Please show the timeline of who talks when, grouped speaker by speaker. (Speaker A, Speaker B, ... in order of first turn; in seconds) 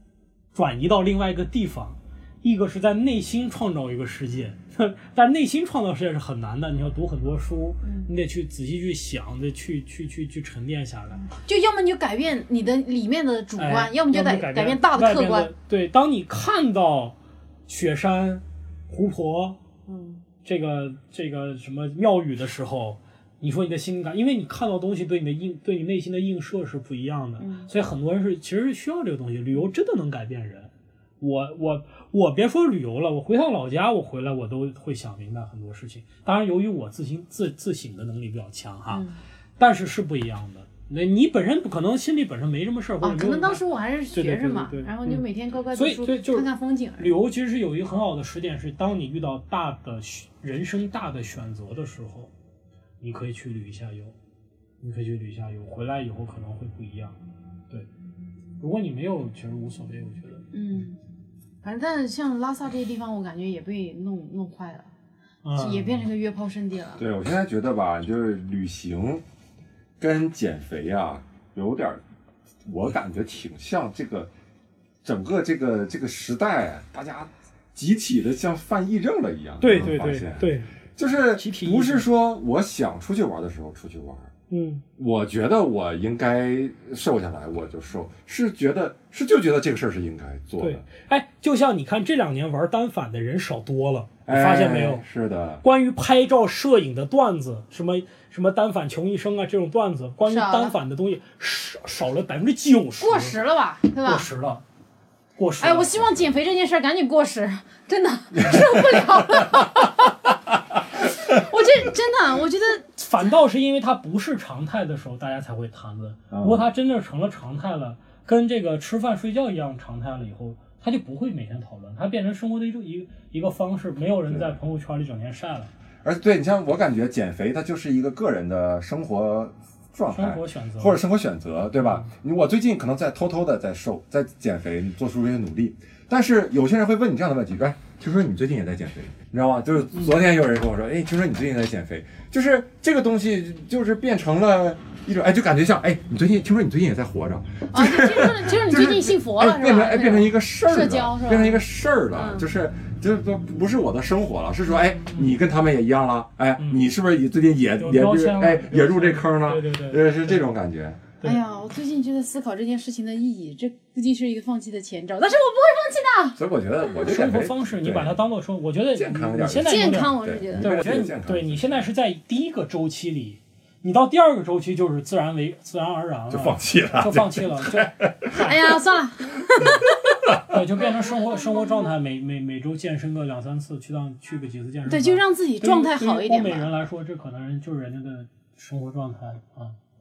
Speaker A: 0.5-11.3, 13.6-17.1, 17.7-19.6, 20.4-39.1, 39.6-52.3, 53.0-54.1, 54.8-57.2, 58.6-60.4, 65.4-66.0, 79.6-80.7, 81.3-82.1, 84.5-84.8, 90.6-95.0, 95.6-103.4, 103.9-104.6, 105.4-106.1, 113.0-125.7, 130.1-131.0, 131.8-132.1, 156.6-156.8, 157.8-160.6, 167.0-178.6, 179.6-179.8, 180.4-189.8
Speaker B: 7.8-8.1, 11.3-15.5, 19.9-20.2, 27.4-27.7, 38.9-39.2, 43.0-47.1, 60.5-61.0, 61.6-64.9, 65.5-67.0, 100.2-100.8, 103.0-104.3, 105.6-110.1, 111.3-113.3, 147.7-152.5, 161.2-166.4, 169.6-170.8, 178.3-179.8, 184.9-186.7
Speaker C: 67.0-69.2, 70.0-72.0, 72.7-74.3, 75.0-84.3, 85.0-90.8, 94.2-95.6, 116.3-116.7, 124.3-124.6, 126.0-161.0, 166.4-168.2, 168.9-171.8, 176.3-178.3, 179.8-180.5